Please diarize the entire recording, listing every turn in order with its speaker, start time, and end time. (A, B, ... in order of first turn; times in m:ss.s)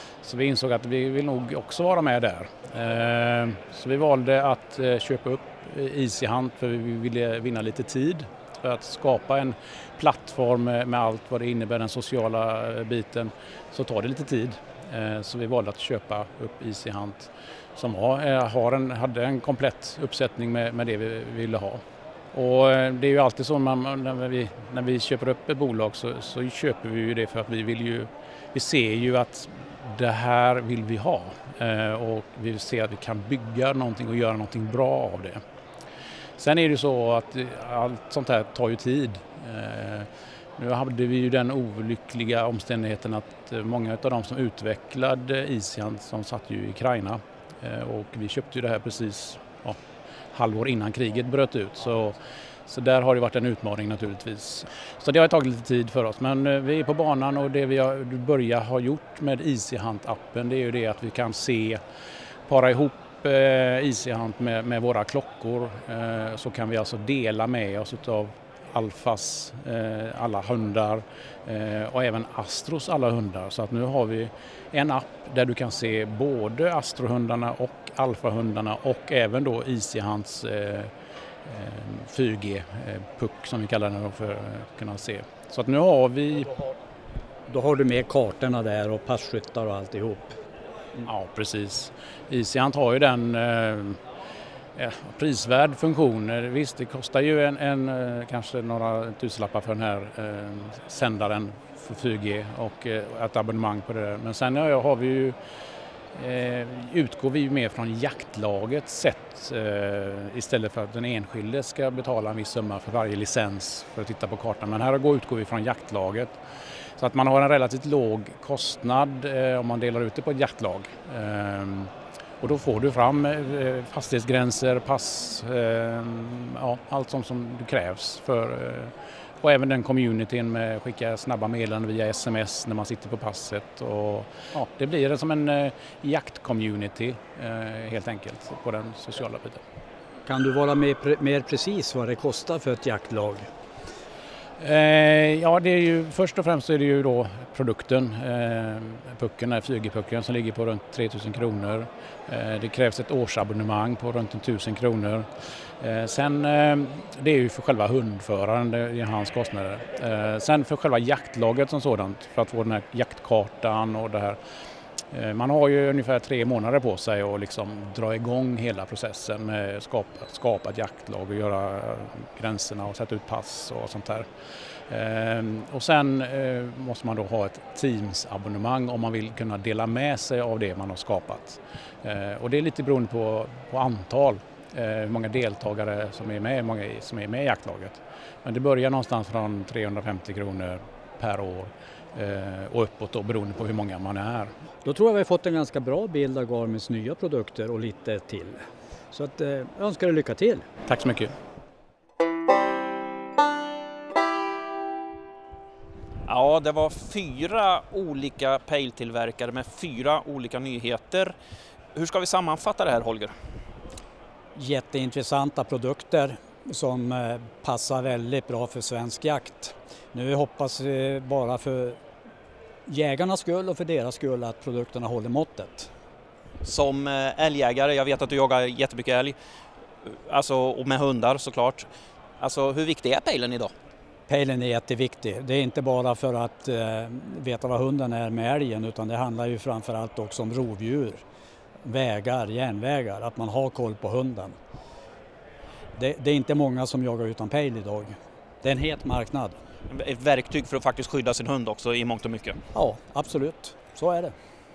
0:00.2-0:35.4 A
0:36.4-0:49.8 A
0:50.3-1:01.8 A
1:02.5-1:20.9 A
1:21.5-1:26.6 A
1:27.5-1:30.4 B
1:31.0-1:34.0 A
1:34.8-1:45.4 A
1:46.1-1:56.4 A
1:57.0-2:19.6 A
2:20.3-2:23.5 B
2:24.6-2:35.3 A
2:35.8-2:44.4 A
2:45.1-2:54.3 A
2:54.9-3:14.5 A
3:14.8-3:18.6 B
3:19.1-3:20.7 B
3:20.9-3:21.3 A
3:26.3-3:31.3 C
3:32.0-3:33.3 C
3:34.6-3:42.0 B
3:42.9-3:45.9 B
3:46.6-3:49.4 C
3:50.1-3:51.9 C
3:52.4-3:53.7 C
3:54.3-4:01.2 B
4:01.8-4:04.6 B
4:06.0-4:09.6 B
4:09.9-4:12.6 C
4:12.7-4:14.4 B